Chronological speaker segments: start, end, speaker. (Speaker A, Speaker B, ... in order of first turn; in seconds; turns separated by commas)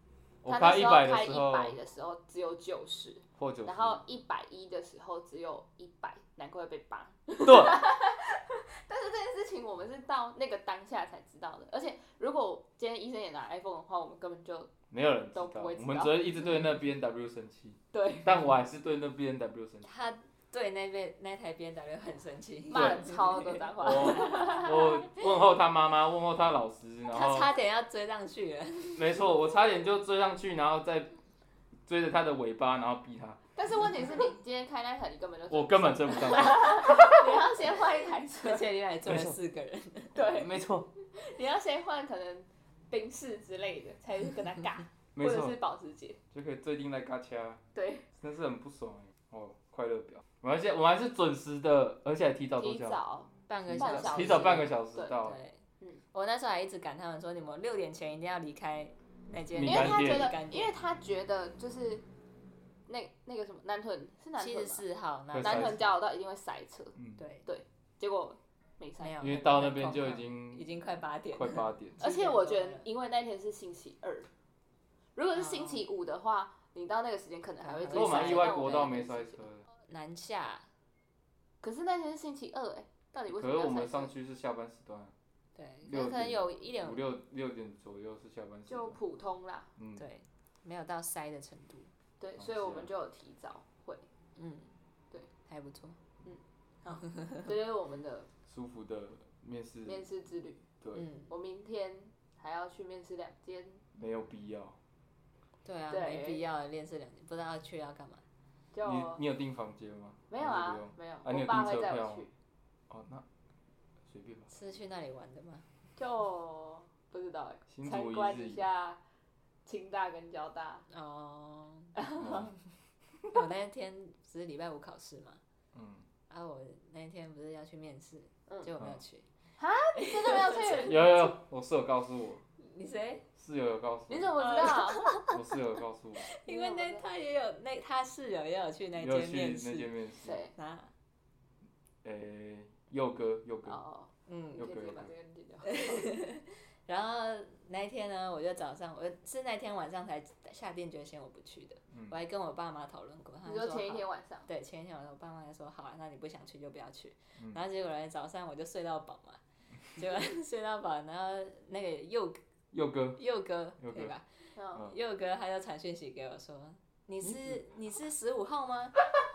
Speaker A: 0.4-1.8, Speaker B: 0.5-14.8, Speaker A: 3.4-4.0, Speaker A: 7.4-7.8, Speaker A: 14.9-19.9, Speaker B: 15.3-16.2, Speaker B: 17.9-18.4, Speaker C: 19.8-24.7, Speaker B: 22.7-25.0, Speaker A: 22.7-23.0, Speaker A: 23.8-27.5, Speaker C: 27.1-29.1, Speaker A: 28.9-31.1, Speaker A: 31.9-33.4, Speaker B: 33.6-38.7, Speaker A: 35.5-37.2, Speaker C: 38.4-40.3, Speaker A: 39.0-39.4, Speaker B: 40.1-46.2, Speaker A: 40.3-40.9, Speaker A: 45.2-45.6, Speaker A: 46.3-47.6, Speaker B: 47.8-48.1, Speaker A: 48.1-53.0, Speaker B: 52.6-55.1, Speaker C: 53.5-55.6, Speaker A: 53.6-55.4, Speaker C: 56.1-60.7, Speaker A: 59.5-60.3, Speaker B: 59.6-62.0, Speaker B: 62.9-64.8, Speaker C: 64.4-65.8, Speaker A: 65.3-65.9, Speaker B: 65.4-69.4, Speaker C: 67.2-67.5, Speaker C: 69.0-72.9, Speaker A: 69.2-70.7, Speaker A: 71.3-72.0, Speaker B: 72.0-74.3, Speaker B: 75.2-79.4, Speaker C: 75.3-75.8, Speaker C: 77.6-79.0, Speaker A: 77.9-79.7, Speaker C: 79.9-80.7, Speaker B: 81.6-84.1, Speaker A: 83.3-85.1, Speaker C: 85.6-87.1, Speaker A: 85.8-89.0, Speaker B: 88.7-89.7, Speaker A: 89.8-90.0, Speaker C: 90.0-91.9, Speaker B: 92.2-94.0, Speaker A: 92.4-92.9, Speaker C: 94.4-94.8, Speaker C: 95.5-96.0, Speaker B: 96.2-98.3, Speaker C: 96.9-97.5, Speaker A: 98.5-100.0, Speaker B: 99.9-100.7, Speaker A: 100.8-101.1, Speaker C: 100.9-101.3, Speaker B: 101.3-103.8, Speaker A: 104.0-104.8, Speaker C: 105.7-108.2, Speaker B: 105.9-106.4, Speaker B: 108.7-109.2, Speaker A: 108.8-112.3, Speaker B: 110.3-112.3, Speaker A: 112.9-113.2, Speaker A: 114.1-114.5, Speaker C: 114.5-115.7, Speaker B: 116.0-119.0, Speaker A: 117.7-118.7, Speaker B: 119.7-120.9, Speaker C: 120.9-122.0, Speaker B: 122.0-122.5, Speaker A: 122.1-122.5, Speaker C: 123.3-125.4, Speaker A: 125.7-126.0, Speaker C: 126.3-129.3, Speaker B: 129.6-131.1, Speaker C: 130.0-131.1, Speaker A: 130.8-132.4, Speaker C: 132.6-133.3, Speaker A: 133.4-134.4, Speaker B: 134.1-135.2, Speaker C: 134.4-135.4, Speaker A: 135.3-136.3, Speaker C: 136.2-139.9, Speaker B: 136.5-137.1, Speaker A: 139.0-140.4, Speaker B: 140.2-140.5, Speaker C: 140.6-140.9, Speaker A: 142.0-143.8, Speaker B: 143.7-146.1, Speaker C: 144.3-144.7, Speaker A: 144.6-145.1, Speaker C: 145.7-159.4, Speaker A: 151.9-152.2, Speaker B: 153.5-154.5, Speaker C: 159.9-162.4, Speaker A: 162.7-163.2, Speaker C: 163.2-169.0, Speaker A: 163.8-164.1, Speaker B: 164.6-164.9, Speaker A: 167.2-167.6